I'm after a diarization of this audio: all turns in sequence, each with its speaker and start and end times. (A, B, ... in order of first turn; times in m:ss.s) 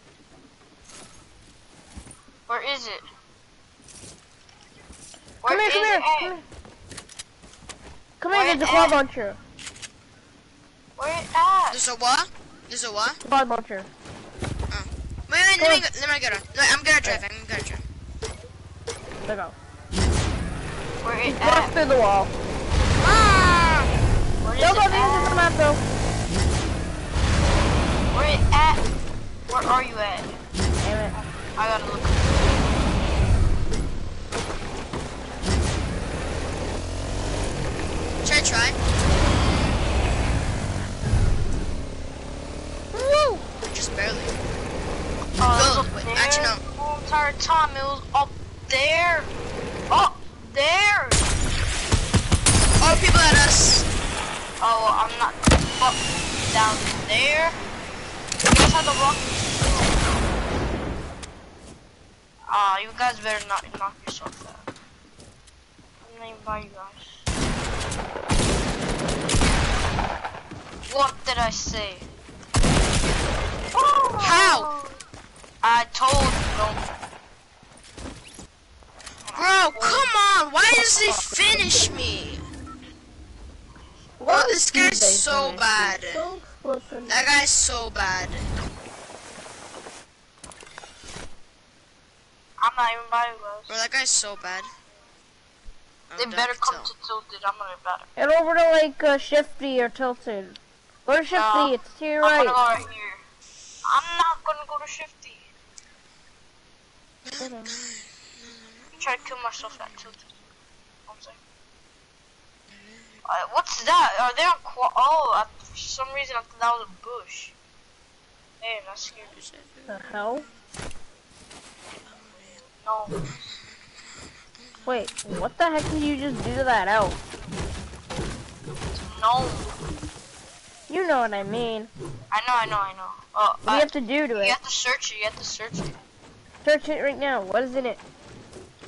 0:02.5-0:03.0 A
0:05.4-0:06.4 A
0:05.4-0:06.4 B
0:08.2-0:09.4 B
0:08.3-0:09.0 A
0:11.0-0:11.8 A
0:11.7-0:13.2 C
0:13.2-0:13.9 B
0:14.7-0:17.8 C
0:15.6-0:15.8 B
0:19.2-0:19.5 B
0:21.0-0:21.7 A
0:21.3-0:22.3 B
0:23.0-0:23.9 A
0:24.4-0:25.4 A
0:24.6-0:25.8 B
0:28.1-0:28.8 A
0:29.5-0:30.4 A
0:30.8-0:31.1 B
0:31.5-0:32.4 A
0:38.2-0:38.8 C
0:42.9-0:43.4 B
0:43.7-0:44.4 C
0:45.4-0:49.3 A
0:45.5-0:46.6 C
0:49.9-0:51.3 A
0:52.8-0:53.8 C
0:54.6-0:57.6 A
0:58.4-1:00.2 A
1:02.5-1:04.6 A
1:06.0-1:07.2 A
1:10.9-1:12.0 A
1:13.7-1:14.9 A
1:14.2-1:14.7 C
1:15.6-1:16.8 A
1:19.3-1:20.0 A
1:19.3-1:22.4 C
1:20.8-1:21.6 B
1:24.2-1:27.2 B
1:24.2-1:26.3 C
1:27.1-1:28.5 C
1:32.6-1:33.7 A
1:33.7-1:34.7 C
1:36.1-1:36.9 C
1:36.2-1:38.1 A
1:38.2-1:42.6 B
1:41.3-1:43.2 A
1:43.8-1:45.5 A
1:47.2-1:48.9 C
1:47.4-1:47.7 B
1:49.0-1:50.3 A
1:51.1-1:51.4 A
1:53.2-1:57.5 A
1:58.6-1:59.5 A
1:59.9-2:00.4 B
2:02.8-2:03.2 A
2:04.8-2:07.2 B
2:09.0-2:09.8 A
2:10.9-2:11.9 B
2:12.3-2:16.0 A
2:13.6-2:14.6 B
2:16.6-2:18.0 B